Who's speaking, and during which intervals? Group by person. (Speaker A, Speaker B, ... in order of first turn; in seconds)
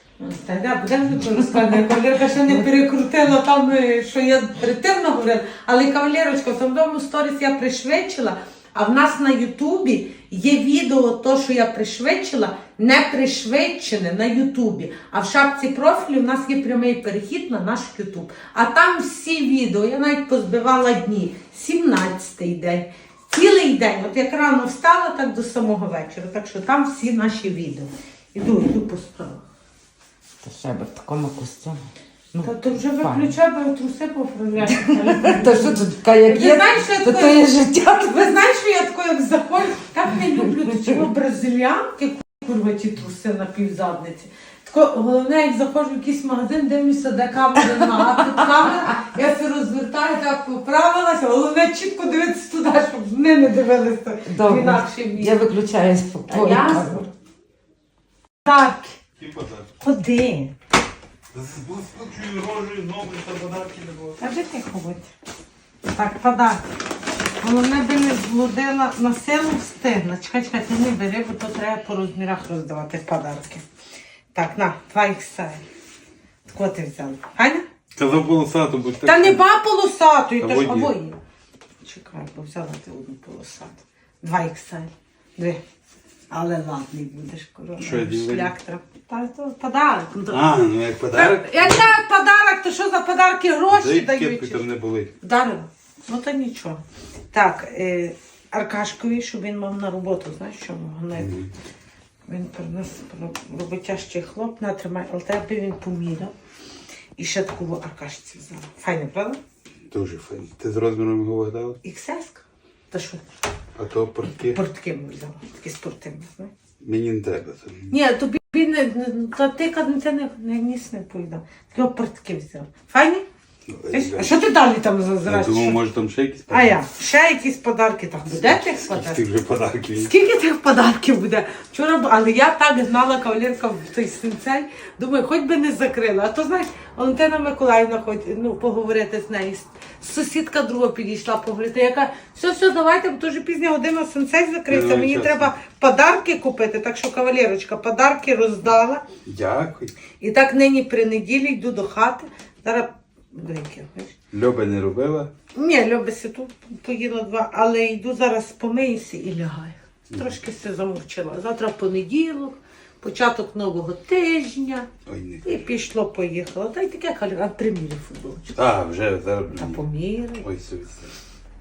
Speaker A: 0.2-29.4, 32.4-55.4, 56.3-57.1, 58.5-59.0, 59.8-60.5, 64.2-65.1, 65.9-66.6, 67.4-73.6, 74.3-75.6, 76.5-77.7, 79.0-81.2, 81.8-85.6, 86.3-90.5, 91.1-101.3, 102.3-106.3, 107.2-109.4, 111.8-113.2, 114.3-116.5, 117.9-123.2, 123.9-125.8, 126.5-129.3, 129.9-149.0, 150.2-154.2, 155.6-164.9, 165.4-168.6, 169.5-170.5
Speaker B: 30.4-31.8, 32.3-33.3, 34.7-38.4, 54.3-57.1
Speaker C: 59.2-59.7, 61.3-64.2, 78.0-79.4, 80.4-80.9, 87.8-88.5, 90.3-92.0, 93.7-95.1, 101.2-101.5, 109.9-111.8, 113.8-114.6, 116.8-117.9, 123.7-124.3, 125.3-126.8, 128.3-130.1, 144.7-145.5, 149.3-149.9, 154.3-155.3, 165.1-165.6, 168.6-169.8, 170.4-171.0